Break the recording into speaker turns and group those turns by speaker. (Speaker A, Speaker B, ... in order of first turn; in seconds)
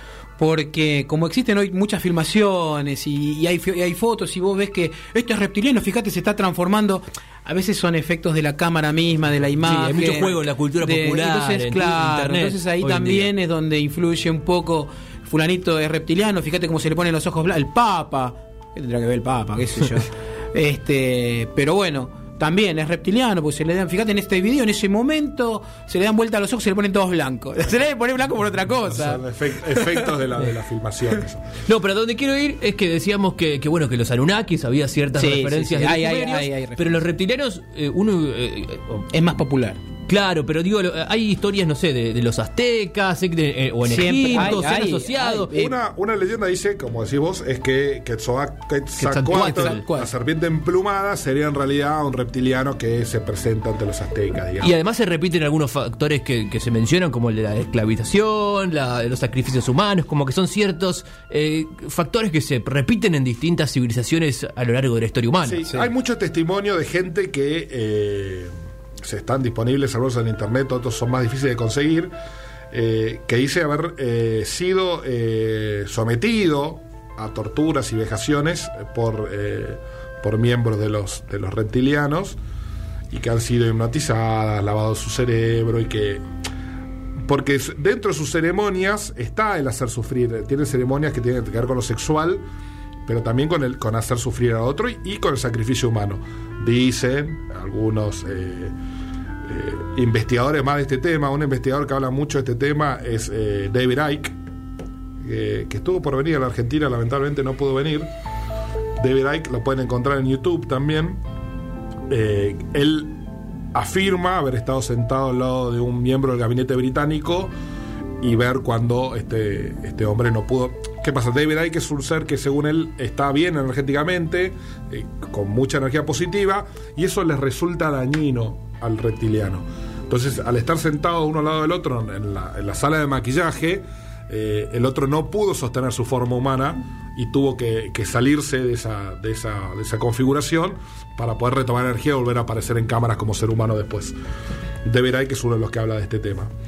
Speaker A: 0.4-29.2, 35.1-36.9, 39.1-39.8, 43.8-45.7, 49.2-50.1
Speaker B: 9.6-13.3, 31.6-39.0, 40.1-45.5, 49.0-49.8, 54.6-65.7
Speaker C: 28.9-31.6, 45.5-54.8, 65.4-68.5, 69.0-72.1, 72.7-82.4, 83.1-86.2, 87.2-92.4, 93.0-98.7, 99.4-104.3, 105.2-108.1, 109.0-111.2, 112.1-113.2, 113.7-117.5, 118.2-144.1, 144.8-146.5